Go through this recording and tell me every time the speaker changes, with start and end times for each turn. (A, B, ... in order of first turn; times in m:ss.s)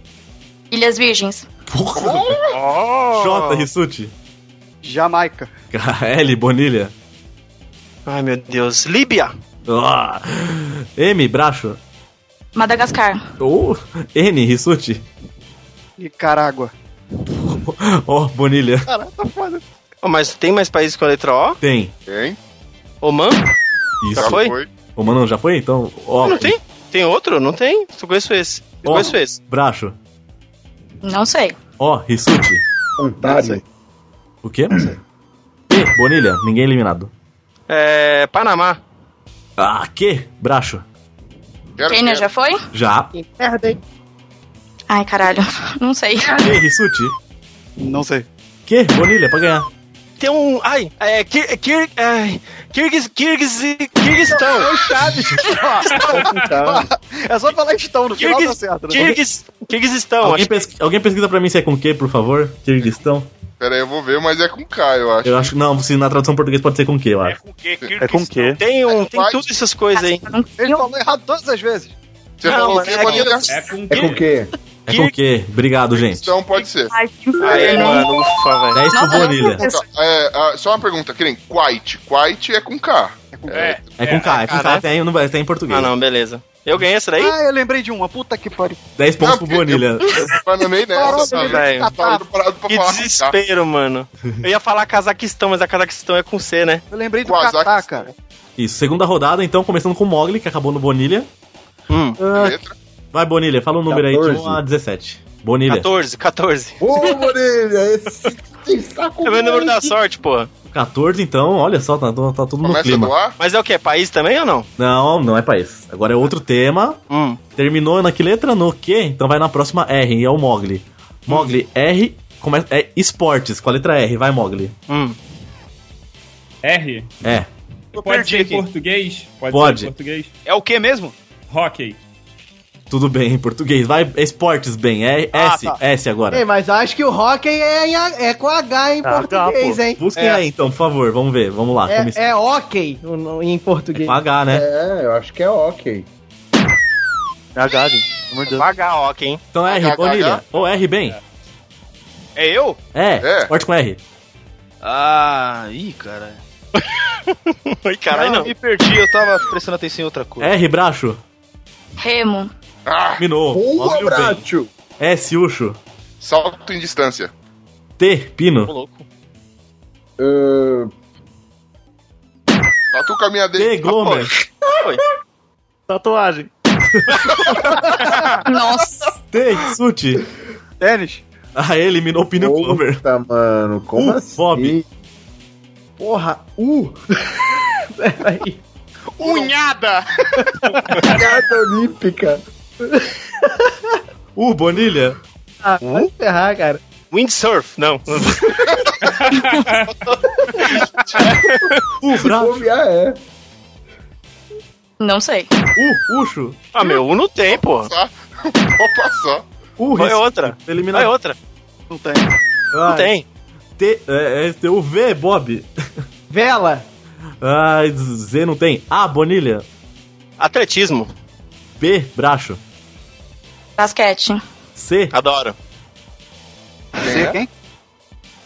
0:00.7-0:01.5 A
0:01.7-0:02.4 B
0:02.0-0:02.6 C
0:03.1-0:04.1 B
0:04.8-0:05.5 D
0:05.7-0:06.9 B
0:08.0-0:09.3 E
0:09.7-0:11.8 B
0:12.5-0:13.2 A
0:13.4-0:15.0 B
0:16.0-0:16.7 D
0:17.4-0:18.9 B
0:18.9-0:19.6 D
0:20.0-0:21.6 E
0:21.6-0:21.9 B
0:22.1-0:22.4 C
0:23.0-0:23.4 E
0:24.0-0:24.4 B
0:24.1-0:24.7 C
0:24.2-0:24.5 E
0:24.9-0:26.5 B
0:26.2-0:29.4 E
0:28.8-0:30.0 B
0:31.0-0:31.6 A
0:31.8-0:32.6 B
0:33.0-0:33.6 F
0:34.4-0:34.8 B
0:35.7-0:37.1 B
0:37.7-0:38.8 E
0:39.6-0:40.8 B
0:41.8-0:42.3 C
0:41.8-0:42.6 A
0:42.7-0:43.1 B
0:43.2-0:43.7 G
0:44.9-0:46.4 A
0:46.4-0:47.1 B
0:47.8-0:48.2 D
0:48.6-0:49.7 B
0:50.2-0:54.8 E
0:54.3-0:59.0 D
0:56.0-0:56.3 H
0:56.0-0:56.8 F
0:58.2-1:00.6 E
0:59.0-0:59.2 B
1:00.2-1:03.3 B
1:03.6-1:05.5 C
1:05.2-1:07.4 B
1:07.2-1:08.6 I
1:08.0-1:08.6 J
1:08.6-1:10.2 E
1:08.9-1:09.4 C
1:09.9-1:10.8 A
1:10.6-1:11.9 D
1:12.4-1:13.5 C
1:12.4-1:13.5 E
1:13.1-1:14.2 H
1:13.9-1:14.5 F
1:14.9-1:16.3 B
1:15.9-1:16.9 C
1:16.9-1:19.8 A
1:17.4-1:18.8 E
1:18.7-1:19.6 B
1:19.3-1:23.9 C
1:23.3-1:23.6 D
1:23.5-1:23.8 I
1:24.0-1:25.9 B
1:24.2-1:24.8 E
1:25.7-1:27.3 E
1:27.2-1:28.8 D
1:29.0-1:30.3 B
1:29.2-1:33.4 C
1:30.9-1:32.2 D
1:31.2-1:31.9 E
1:32.7-1:36.8 E
1:36.9-1:38.1 D
1:37.2-1:38.1 C
1:38.6-1:41.3 B
1:41.9-1:42.2 E
1:42.2-1:42.6 B
1:42.3-1:42.7 C
1:43.1-1:45.9 B
1:43.9-1:44.6 F
1:45.7-1:46.8 E
1:46.8-1:49.9 F
1:49.2-1:50.5 E
1:50.7-1:53.1 B
1:52.6-1:53.4 C
1:53.4-1:54.7 E
1:54.8-1:57.0 B
1:57.1-1:57.4 E
1:57.6-2:04.7 B
2:04.9-2:05.2 E
2:06.6-2:07.1 H
2:07.2-2:07.5 B
2:07.9-2:10.3 H
2:08.0-2:08.6 I
2:09.5-2:09.9 B
2:10.4-2:11.1 I
2:11.5-2:12.0 H
2:12.9-2:16.4 B
2:15.3-2:15.8 I
2:16.3-2:20.3 G
2:19.0-2:19.8 J
2:20.0-2:22.2 B
2:21.9-2:24.1 G
2:24.0-2:24.6 B
2:24.5-2:26.0 F
2:27.5-2:28.7 J
2:28.5-2:29.4 E
2:29.5-2:31.2 B
2:29.7-2:30.4 C
2:32.4-2:32.8 I
2:32.9-2:34.0 B
2:33.2-2:33.5 C
2:34.8-2:36.4 I
2:37.8-2:38.5 E
2:38.1-2:40.5 I
2:40.4-2:41.2 B
2:42.0-2:42.5 A
2:42.8-2:43.2 C
2:43.2-2:44.4 B
2:43.5-2:44.7 F
2:45.0-2:45.8 B
2:46.2-2:47.3 C
2:48.0-2:48.7 B
2:48.7-2:49.0 E
2:50.2-2:50.9 F
2:52.9-2:54.3 C
2:53.6-2:54.3 B
2:54.7-2:55.0 E
2:55.9-2:56.5 J
2:58.4-2:59.1 A
2:59.3-3:00.2 B
3:00.8-3:01.2 D
3:01.6-3:03.0 B
3:02.4-3:04.8 F
3:04.0-3:04.8 B
3:06.0-3:07.4 G
3:08.0-3:08.6 G
3:09.2-3:10.3 I
3:09.2-3:09.6 C
3:11.1-3:12.4 F
3:13.0-3:13.5 G
3:14.4-3:15.2 B
3:15.6-3:16.8 G
3:17.1-3:18.6 E
3:19.0-3:19.9 H
3:21.5-3:21.8 E
3:22.0-3:22.6 B
3:22.1-3:23.2 F
3:25.0-3:25.5 A
3:25.8-3:26.6 B
3:26.7-3:27.9 E
3:27.5-3:29.4 C
3:29.8-3:31.1 B
3:30.0-3:31.4 E
3:31.9-3:32.3 D
3:32.7-3:33.1 B
3:32.9-3:33.2 E
3:33.8-3:35.7 B
3:36.3-3:36.8 G
3:37.4-3:39.6 B
3:40.4-3:41.1 E
3:41.8-3:42.6 B
3:43.8-3:44.4 A
3:44.8-3:45.1 B
3:45.1-3:45.5 E
3:47.0-3:47.5 D
3:47.0-3:47.4 C